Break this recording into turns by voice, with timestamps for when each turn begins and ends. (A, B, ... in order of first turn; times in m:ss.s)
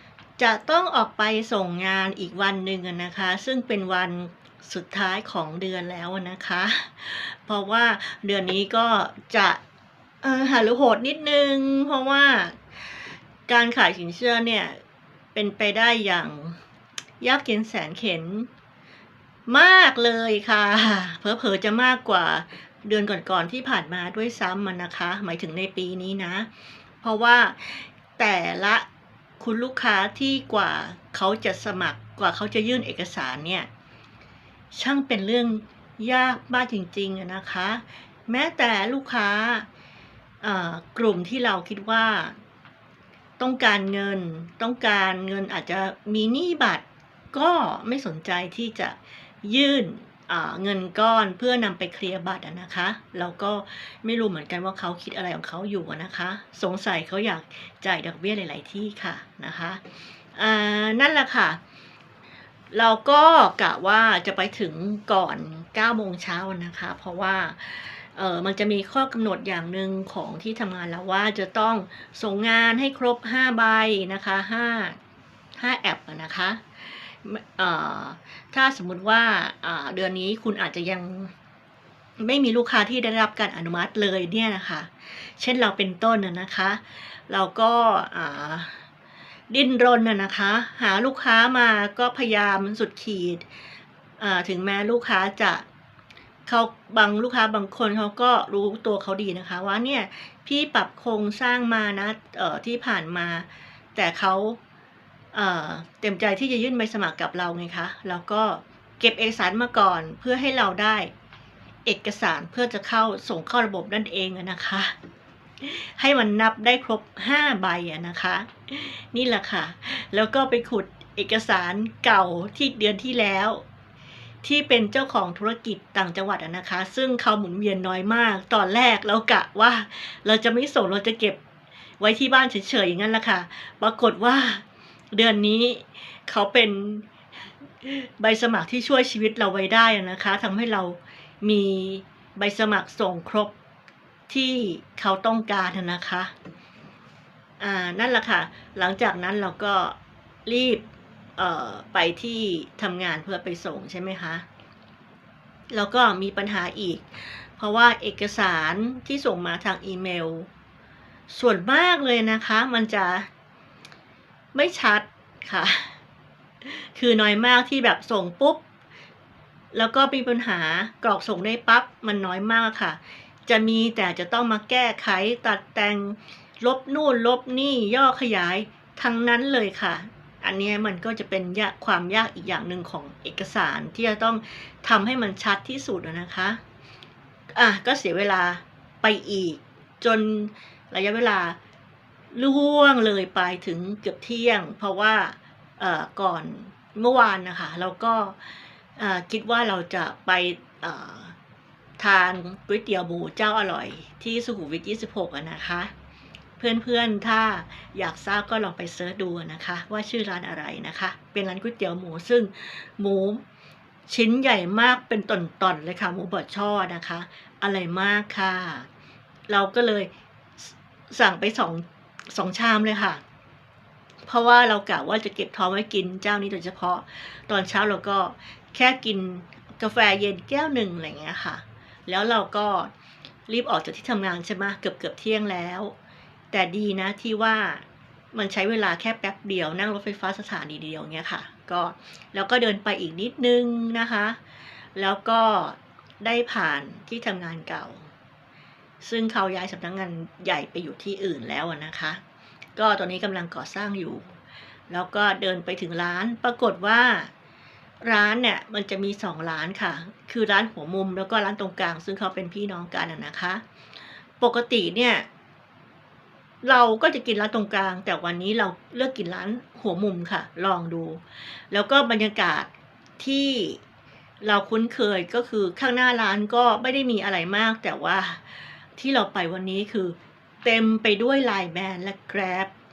0:00.4-0:09.6 A
0:10.2-0:14.8 A
0:15.3-0:16.6 A
0:17.2-0:18.5 A
0:19.5-0:26.5 A
0:27.0-0:28.8 A
0:29.4-0:33.7 A
0:34.7-0:39.7 A
0:40.4-0:42.4 A
0:43.4-0:59.8 A
1:00.3-1:01.6 A
1:02.7-1:15.0 A
1:15.6-1:21.3 A
1:22.2-1:28.8 A
1:29.5-1:33.4 A
1:34.2-1:35.6 A
1:36.4-1:44.6 A
1:45.3-1:51.1 A
1:51.8-1:54.9 A
1:55.6-2:03.6 A
2:04.4-2:11.4 A
2:12.0-2:17.1 A
2:17.8-2:23.5 A
2:24.3-2:26.3 A
2:27.6-2:30.8 A
2:31.4-2:34.4 A
2:35.7-2:40.5 A
2:41.3-2:43.3 A
2:44.5-2:46.0 A
2:46.6-2:48.6 A
2:49.7-3:06.6 A
3:07.5-3:11.6 A
3:12.3-3:21.3 A
3:22.0-3:25.9 A
3:26.6-3:33.4 A
3:34.1-3:38.9 A
3:39.5-3:43.2 A
3:44.2-3:52.9 A
3:53.5-3:55.9 A
3:56.5-4:04.4 A
4:04.9-4:08.1 A
4:09.0-4:12.2 A
4:12.8-4:14.4 A
4:14.9-4:17.3 A
4:18.0-4:23.6 A
4:24.4-4:25.2 A
4:26.6-4:33.8 A
4:34.4-4:42.7 A